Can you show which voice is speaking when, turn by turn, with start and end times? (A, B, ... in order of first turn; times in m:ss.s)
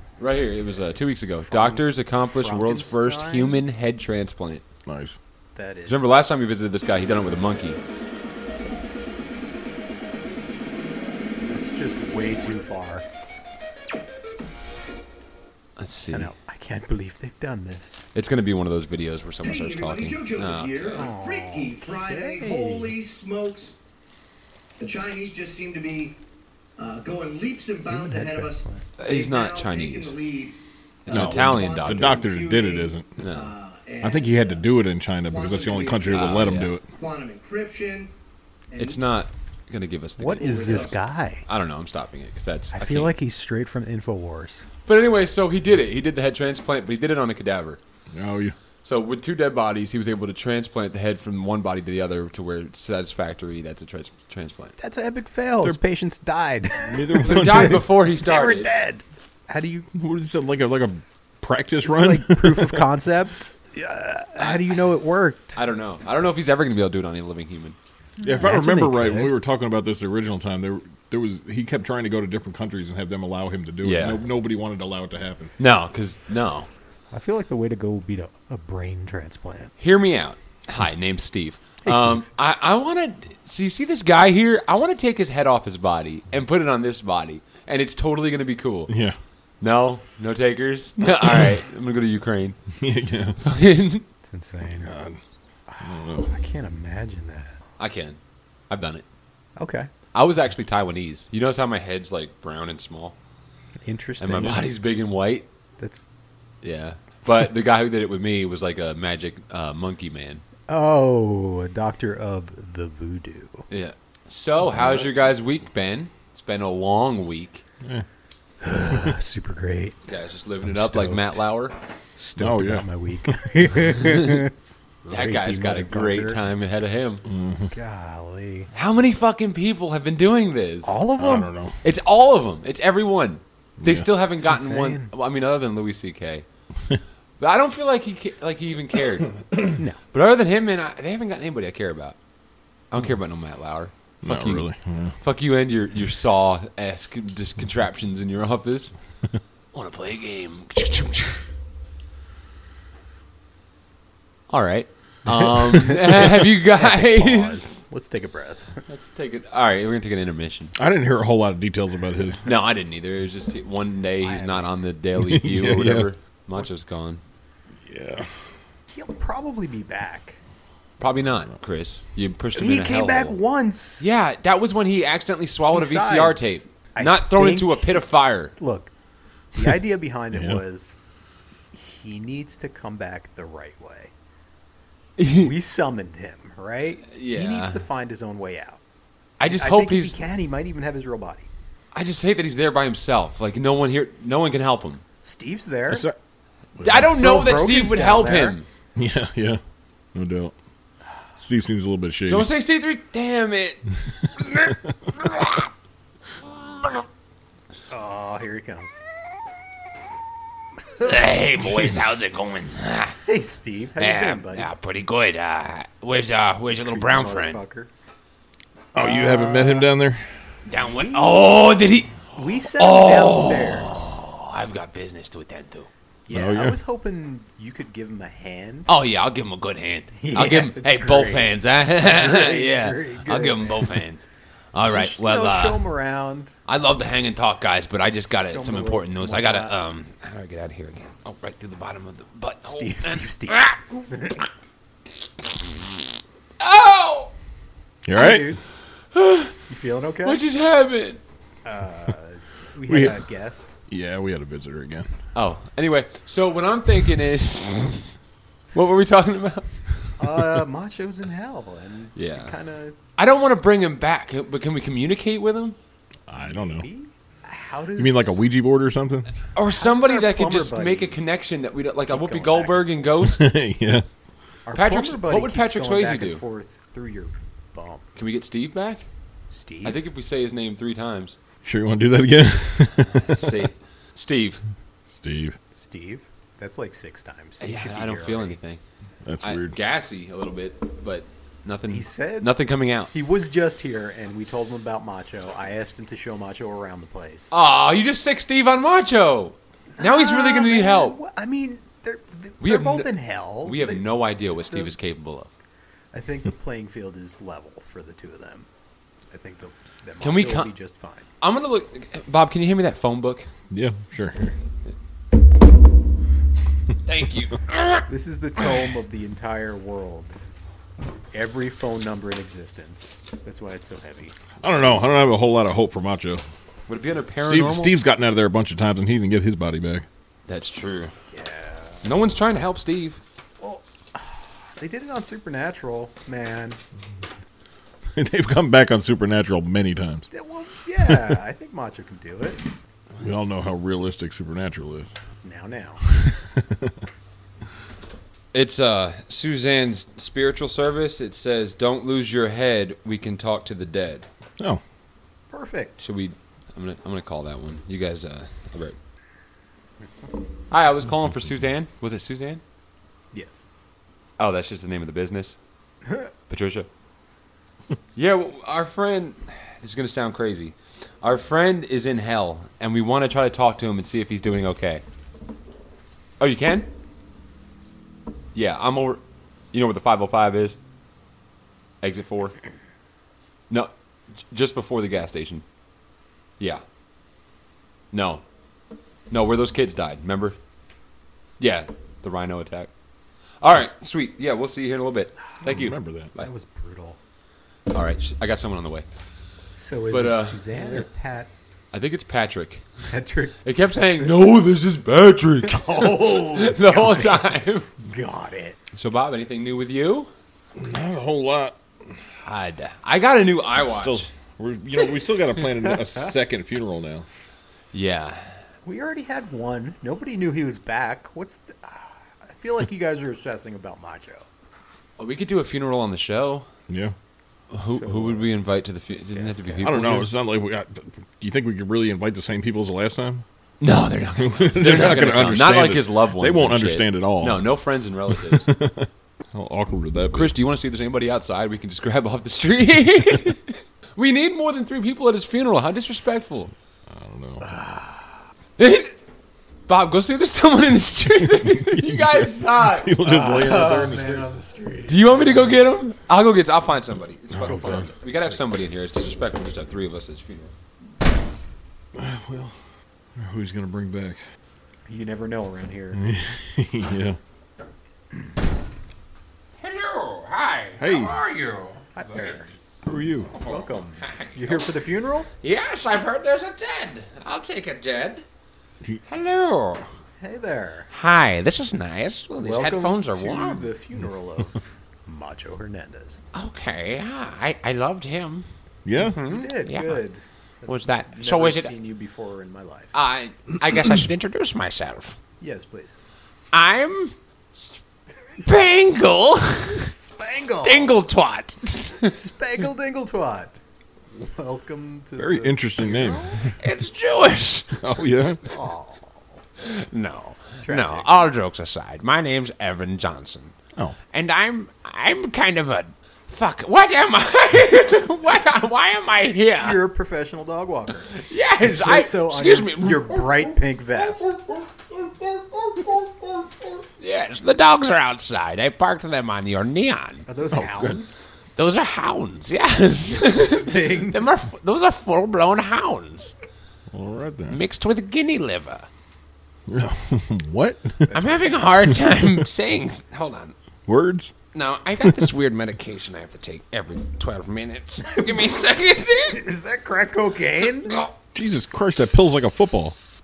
0:00.2-0:04.6 A
0:01.3-0:03.6 B
0:04.9-0:05.2 C
0:05.6-0:06.2 B
0:05.9-0:07.8 A
0:11.5-0:13.0 B
0:15.8-0:16.3 A
0:16.1-0:18.0 B
0:18.2-0:21.0 A
0:19.4-0:23.8 D
0:20.9-0:23.0 B
0:24.8-0:26.2 D
0:26.8-0:34.6 D
0:27.9-0:28.8 B
0:29.0-0:30.2 A
0:31.1-0:32.2 A
0:31.1-0:33.2 C
0:33.2-0:33.6 A
0:34.0-0:36.8 C
0:35.3-0:38.1 D
0:36.1-0:36.7 A
0:38.7-0:39.0 D
0:38.8-0:43.2 A
0:40.2-0:41.4 B
0:40.4-0:41.0 D
0:42.7-0:44.7 B
0:44.9-0:47.8 A
0:48.1-0:48.6 C
0:48.8-0:54.8 A
0:54.8-0:59.9 B
0:56.8-0:57.8 C
0:57.2-0:58.7 A
0:59.9-1:02.9 C
1:01.8-1:05.6 B
1:05.6-1:07.8 A
1:08.2-1:09.3 B
1:08.2-1:15.5 C
1:13.8-1:14.2 A
1:15.6-1:16.7 A
1:17.1-1:19.7 B
1:19.8-1:28.9 A
1:21.8-1:22.3 B
1:28.9-1:29.2 C
1:29.6-1:32.6 A
1:32.8-1:33.4 C
1:33.4-1:34.0 A
1:34.2-1:35.0 B
1:34.8-1:35.2 C
1:35.7-1:37.5 B
1:35.8-1:36.3 C
1:37.8-1:38.2 A
1:38.7-1:39.0 A
1:39.6-1:39.9 B
1:40.1-1:43.2 A
1:43.8-1:44.6 B
1:44.2-1:45.5 A
1:45.8-1:46.1 B
1:46.6-1:50.4 A
1:50.7-1:53.6 B
1:53.7-1:57.6 A
1:54.7-1:55.1 C
1:58.6-2:00.0 B
2:00.1-2:01.7 A
2:00.6-2:01.4 B
2:02.2-2:04.5 B
2:02.4-2:03.4 C
2:04.2-2:04.4 A
2:05.1-2:06.4 B
2:05.1-2:07.2 A
2:07.3-2:07.7 C
2:07.7-2:08.7 B
2:08.7-2:11.0 A
2:10.8-2:11.5 B
2:11.2-2:11.8 C
2:11.8-2:16.5 A
2:13.8-2:14.1 C
2:14.3-2:15.1 B
2:17.4-2:19.3 A
2:19.7-2:20.0 B
2:20.1-2:22.2 A
2:22.9-2:24.7 A
2:24.2-2:25.1 C
2:25.2-2:28.9 A
2:29.7-2:31.4 A
2:34.5-2:37.8 A
2:35.7-2:38.8 B
2:38.9-2:40.7 A
2:40.8-2:42.4 C
2:42.4-2:47.2 A
2:44.2-2:44.7 B
2:45.2-2:46.1 C
2:47.8-2:48.3 C
2:48.9-2:50.4 B
2:51.0-2:53.4 A
2:52.6-2:54.1 B
2:54.0-2:58.5 A
2:55.7-2:58.0 B
2:58.6-2:58.9 B
2:59.5-3:01.0 B
3:00.3-3:00.6 C
3:01.7-3:04.1 B
3:05.2-3:05.5 A
3:05.4-3:08.8 B
3:07.1-3:07.8 A
3:09.4-3:10.2 A
3:09.5-3:11.5 B
3:11.9-3:15.0 A
3:15.2-3:16.1 B
3:15.9-3:16.2 C
3:16.8-3:17.1 C
3:16.8-3:18.7 A
3:16.9-3:18.6 B
3:19.0-3:19.6 C
3:20.1-3:20.5 C
3:21.4-3:22.5 C
3:22.3-3:23.8 A
3:24.4-3:25.7 A
3:27.9-3:29.0 B
3:31.0-3:33.2 A
3:33.2-3:34.7 B
3:34.0-3:37.6 A
3:36.8-3:37.9 B
3:38.9-3:40.3 C
3:39.0-3:39.9 B
3:40.7-3:42.2 A
3:40.8-3:41.4 B
3:42.3-3:44.3 B
3:42.8-3:45.9 A
3:46.3-3:48.9 B
3:46.3-3:46.8 C
3:48.9-3:55.8 A
3:50.2-3:54.0 B
3:54.8-3:56.5 B
3:56.7-4:03.9 A
3:58.4-3:59.7 B
4:02.6-4:04.4 B
4:06.6-4:07.3 A
4:08.1-4:08.6 C
4:08.1-4:08.6 B
4:09.1-4:09.6 A
4:09.7-4:10.4 B
4:10.2-4:11.2 A
4:11.6-4:13.8 B
4:12.9-4:13.2 C
4:13.9-4:15.1 C
4:15.4-4:18.1 A
4:18.7-4:19.7 A
4:20.2-4:23.0 B
4:22.2-4:22.6 A
4:23.2-4:25.8 A
4:26.3-4:26.9 C
4:26.4-4:28.4 B
4:28.0-4:29.3 C
4:29.6-4:33.4 A
4:29.6-4:31.2 B
4:32.1-4:33.0 B
4:33.2-4:34.1 C
4:34.7-4:38.1 B
4:34.7-4:36.4 A
4:38.2-4:39.0 A
4:39.5-4:40.1 B
4:39.8-4:41.4 A
4:41.6-4:43.7 C
4:43.1-4:44.6 A
4:45.1-4:45.6 C
4:45.7-4:48.6 B
4:47.6-4:48.8 A
4:49.2-4:49.8 C
4:49.4-4:53.1 A
4:51.9-4:52.6 B
4:53.1-4:57.5 B
4:57.5-5:01.2 A
5:00.0-5:05.0 B
5:02.6-5:03.1 A
5:03.6-5:05.5 A
5:06.1-5:08.7 B
5:09.3-5:11.3 B
5:10.2-5:10.7 A
5:11.4-5:13.5 A
5:13.7-5:14.4 C
5:17.0-5:18.0 A
5:18.1-5:20.4 B
5:21.3-5:24.4 B
5:24.6-5:26.4 C
5:26.9-5:27.9 A
5:27.4-5:30.1 C
5:30.5-5:31.1 A
5:31.3-5:32.1 B
5:32.0-5:33.2 A
5:33.6-5:36.8 B
5:38.2-5:40.2 C
5:40.3-5:42.6 B
5:41.1-5:41.3 C
5:43.2-5:45.1 C
5:45.4-5:46.0 B
5:46.1-5:46.9 C
5:48.5-5:54.3 A
5:55.5-5:56.0 B
5:56.0-5:59.0 A
6:00.7-6:02.6 A
6:03.3-6:03.6 B
6:04.4-6:05.6 A
6:06.5-6:06.9 A
6:08.2-6:15.0 A
6:16.4-6:16.9 A
6:18.6-6:19.2 A
6:19.7-6:20.8 A
6:22.0-6:22.5 A
6:24.5-6:25.6 A
6:28.1-6:28.4 A
6:29.3-6:30.6 A
6:31.6-6:32.9 A
6:33.6-6:36.5 A
6:35.6-6:36.3 C
6:36.4-6:37.2 B
6:37.9-6:39.1 A
6:39.8-6:41.5 B
6:40.1-6:40.9 A
6:41.9-6:42.9 A
6:43.1-6:44.6 B
6:43.6-6:47.9 A
6:45.7-6:48.8 B
6:48.9-6:50.3 A
6:50.8-6:52.2 C
6:52.4-6:54.3 A
6:53.9-6:57.3 C
6:55.9-6:56.3 B
6:57.9-6:58.6 A
6:58.8-7:04.5 B
7:05.2-7:06.7 A
7:06.9-7:07.2 C
7:07.7-7:10.3 A
7:07.8-7:08.5 B
7:09.3-7:10.2 B
7:09.8-7:13.4 C
7:13.8-7:18.7 A
7:14.4-7:17.8 C
7:18.3-7:20.5 C
7:20.3-7:26.7 A
7:27.1-7:27.6 C
7:27.6-7:28.4 B
7:28.8-7:29.2 A
7:29.9-7:33.1 A
7:31.7-7:34.5 C
7:33.2-7:35.9 B
7:35.1-7:40.7 A
7:37.5-7:38.1 C
7:37.6-7:38.7 B
7:42.1-7:42.8 C
7:43.4-7:44.4 C
7:45.1-7:46.2 B
7:46.1-7:47.4 C
7:49.8-7:52.6 A
7:51.0-7:51.4 C
7:52.2-7:52.7 B
7:53.0-7:53.5 C
7:53.6-7:54.9 A
7:53.6-7:55.5 B
7:55.6-7:58.4 A
7:59.3-8:00.1 A
8:00.4-8:01.1 B
8:01.1-8:03.9 A
8:02.6-8:06.4 B
8:06.5-8:08.6 A
8:09.0-8:09.4 C
8:09.2-8:10.2 A
8:09.4-8:13.2 B
8:10.9-8:11.9 A
8:13.1-8:15.4 A
8:15.6-8:16.2 B
8:16.7-8:18.0 A
8:18.6-8:20.1 A
8:19.9-8:21.2 B
8:20.8-8:22.3 A
8:22.2-8:23.8 B
8:24.4-8:26.7 B
8:25.4-8:26.8 C
8:26.8-8:27.9 A
8:28.0-8:28.6 C
8:28.6-8:29.3 B
8:29.8-8:33.7 A
8:30.8-8:31.5 B
8:34.3-8:40.0 A
8:39.8-8:44.6 B
8:41.4-8:43.6 A
8:47.2-8:50.4 A
8:50.5-8:51.5 B
8:50.7-8:51.2 C
8:51.8-8:56.5 A
8:53.3-8:54.5 B
8:57.1-8:57.8 C
8:57.7-8:59.1 A
8:59.9-9:02.2 C
9:01.3-9:02.3 B
9:01.3-9:03.7 A
9:04.1-9:04.5 C
9:04.7-9:09.6 A
9:08.3-9:08.9 B
9:09.5-9:11.2 B
9:11.5-9:13.2 C